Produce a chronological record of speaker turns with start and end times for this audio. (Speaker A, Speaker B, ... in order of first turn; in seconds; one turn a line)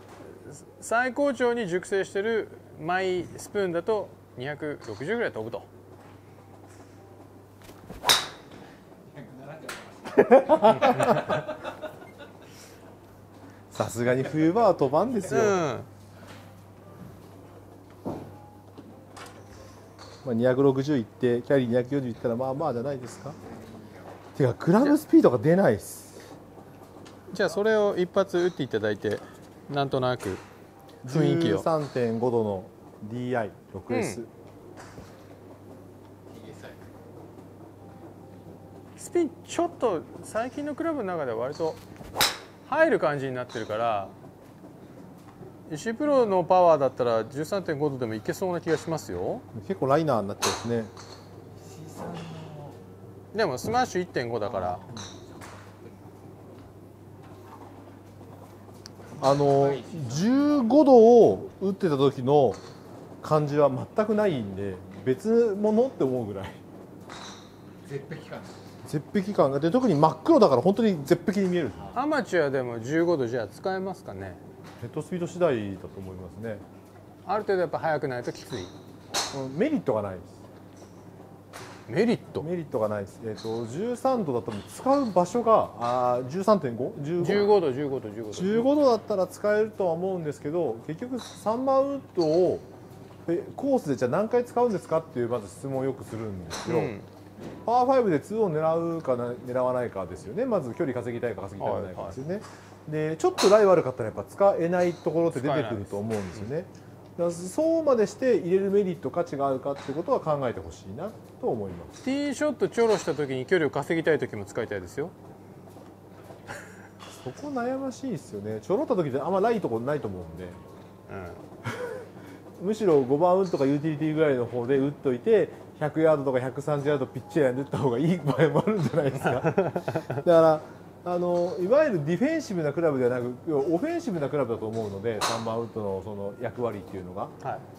Speaker A: 0.3-5.7
Speaker B: 9.1-11.5
Speaker A: 10.6-11.3
Speaker C: 10.8-11.3
Speaker C: 13.7-15.6
Speaker A: 15.2-15.9
Speaker C: 20.2-23.4
Speaker C: 24.3-26.2
Speaker A: 27.3-30.4
Speaker A: 31.0-31.7
Speaker C: 31.0-34.3
Speaker A: 33.9-34.2
Speaker B: 36.4-36.7
Speaker A: 39.0-41.8
Speaker A: 42.6-44.1
Speaker A: 45.7-49.5
Speaker C: 49.5-50.9
Speaker B: 51.6-52.8
Speaker A: 53.3-54.8
Speaker B: 54.7-56.0
Speaker C: 59.2-62.6
Speaker B: 59.3-60.4
Speaker C: 63.2-66.6
Speaker B: 67.8-68.6
Speaker C: 68.8-71.9
Speaker A: 71.9-74.4
Speaker C: 74.8-76.6
Speaker A: 77.2-78.7
Speaker C: 79.3-80.4
Speaker A: 81.9-82.5
Speaker C: 82.4-87.5
Speaker A: 87.2-88.7
Speaker C: 88.3-92.7
Speaker C: 93.2-96.9
Speaker A: 96.6-97.1
Speaker C: 97.6-111.9
Speaker A: 101.6-102.2
Speaker A: 105.3-106.5
Speaker A: 112.0-115.1
Speaker C: 117.1-120.6
Speaker A: 121.1-121.4
Speaker C: 121.7-122.0
Speaker C: 122.6-137.3
Speaker A: 129.1-130.2